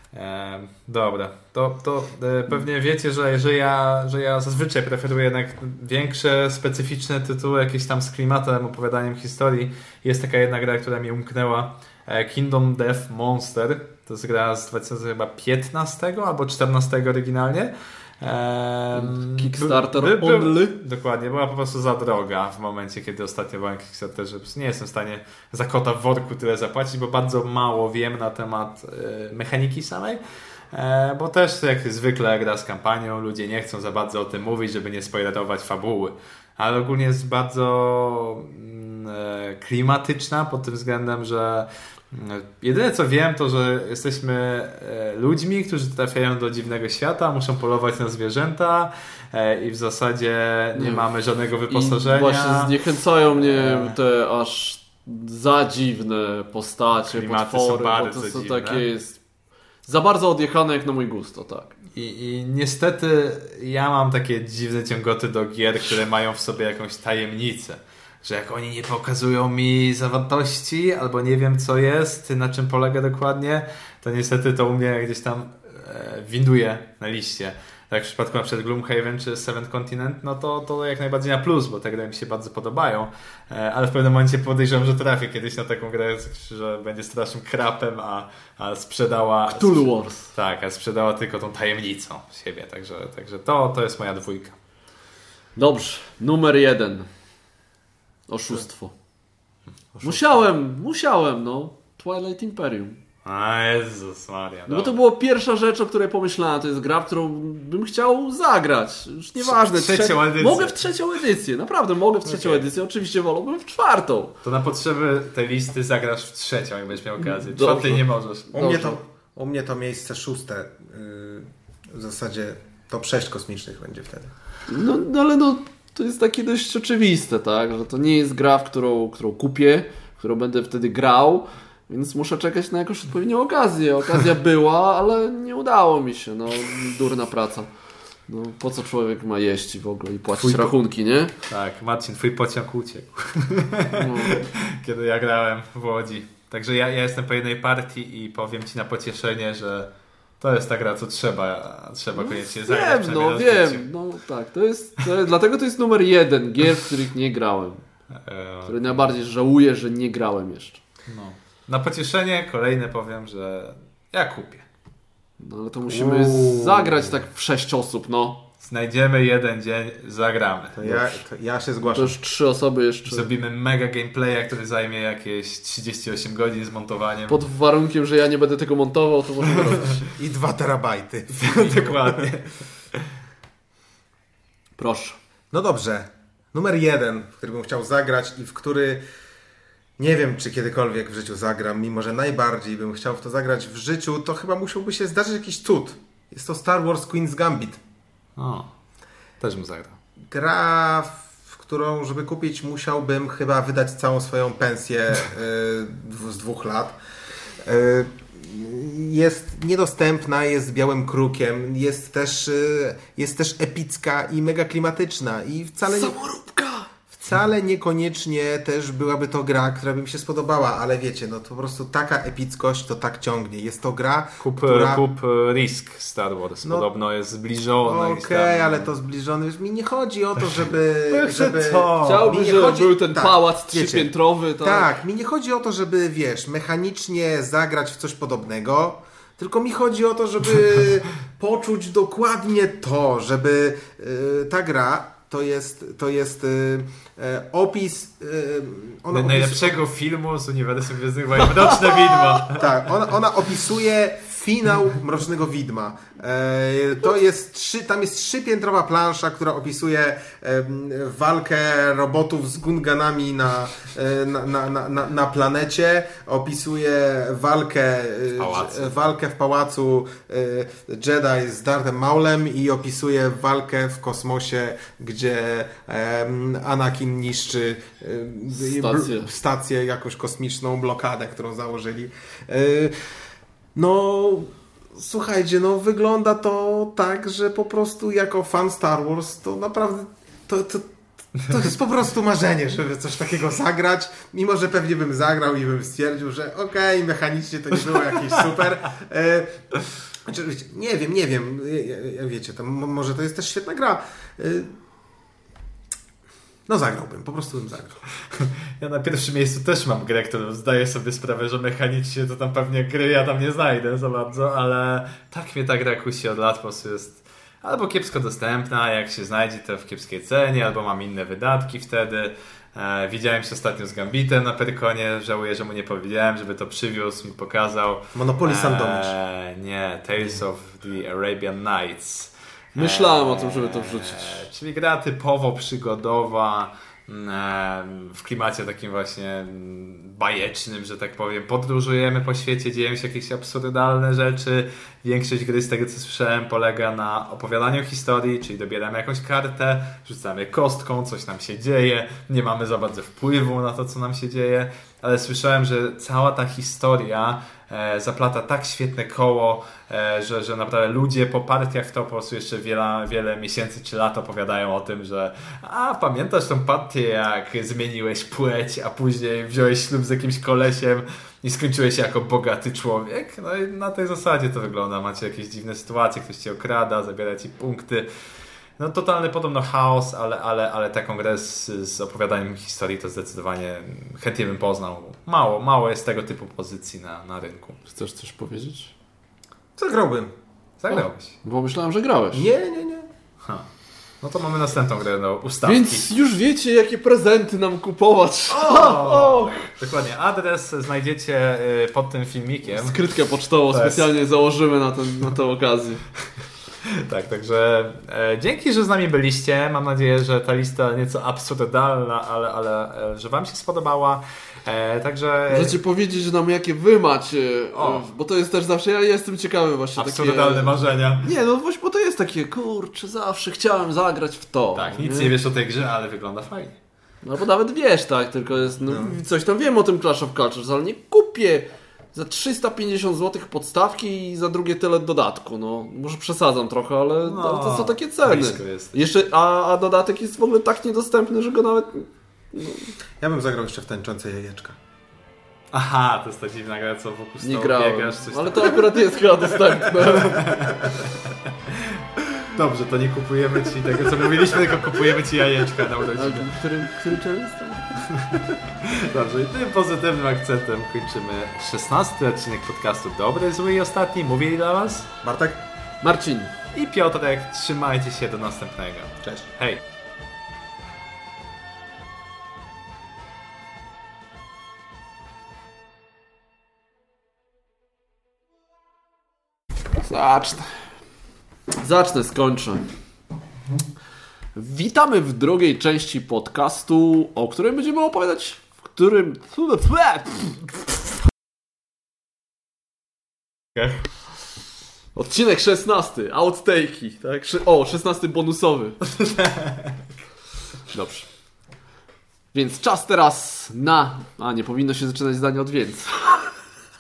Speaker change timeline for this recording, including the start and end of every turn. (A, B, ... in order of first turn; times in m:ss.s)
0:00.1-0:30.2 A
0:18.9-0:20.8 B
0:30.7-0:52.8 A
0:50.8-0:51.1 B
0:51.7-0:59.2 B
0:53.3-0:54.0 A
0:57.0-0:58.9 A
0:59.8-1:01.7 B
1:02.0-1:34.6 A
1:29.5-1:30.3 B
1:35.6-1:37.1 B
1:38.3-1:39.0 B
1:40.0-1:40.3 A
1:40.0-1:43.0 B
1:43.2-1:45.0 A
1:44.7-1:54.4 B
1:49.4-1:50.8 A
1:52.2-1:52.6 A
1:54.4-1:58.5 A
1:57.2-1:59.0 B
1:58.5-2:04.3 C
2:04.7-2:17.7 B
2:18.3-2:21.3 B
2:20.4-2:20.7 A
2:21.5-2:33.9 A
2:23.9-2:24.5 B
2:32.2-2:37.8 B
2:38.2-2:39.1 A
2:38.7-2:40.8 B
2:41.1-2:44.6 A
2:45.4-2:48.4 B
2:46.0-2:46.8 A
2:48.6-2:51.2 A
2:50.7-2:52.2 C
2:51.9-2:53.3 B
2:53.1-2:57.4 A
2:57.3-3:00.0 B
3:00.0-3:02.4 C
3:01.3-3:02.6 A
3:04.8-3:05.2 B
3:05.5-3:09.0 C
3:10.0-3:17.8 C
3:18.4-3:18.7 A
3:19.4-3:20.0 A
3:20.3-3:27.0 C
3:27.6-3:36.2 C
3:35.8-3:36.9 B
3:37.1-3:45.0 C
3:44.4-3:48.9 A
3:47.8-4:09.8 C
3:51.1-3:52.3 A
3:52.0-3:54.9 B
4:09.1-4:12.9 A
4:12.5-4:43.2 C
4:28.4-4:29.0 A
4:38.5-4:39.3 B
4:43.8-4:50.9 C
4:51.4-4:59.6 C
5:00.2-5:04.8 C
5:06.7-5:08.0 C
5:08.3-6:18.1 A
5:28.2-5:29.1 C
5:32.8-5:34.4 B
6:18.8-6:27.8 A
6:27.9-6:28.9 B
6:29.8-6:30.3 C
6:30.8-6:31.4 A
6:31.4-6:32.5 B
6:32.3-6:33.1 C
6:34.2-6:36.0 A
6:35.6-6:39.7 B
6:38.5-6:43.0 A
6:42.7-6:46.0 B
6:43.7-6:44.1 A
6:46.8-6:55.8 A
6:55.5-7:05.3 B
6:57.7-6:58.1 A
7:00.0-7:01.3 A
7:04.8-7:06.8 A
7:07.2-7:22.9 B
7:08.9-7:09.1 C
7:17.2-7:19.0 A
7:23.2-7:24.8 C
7:25.7-7:29.1 A
7:27.4-7:30.8 B
7:30.0-7:36.6 A
7:36.2-7:38.2 B
7:38.3-7:45.1 A
7:45.2-7:45.6 C
7:46.0-7:46.5 B
7:46.7-7:49.8 A
8:00.0-8:00.7 B
8:01.8-8:02.9 B
8:04.6-8:10.6 B
8:15.2-8:19.0 B
8:19.2-8:20.0 A
8:20.9-8:21.3 B
8:22.5-8:26.4 B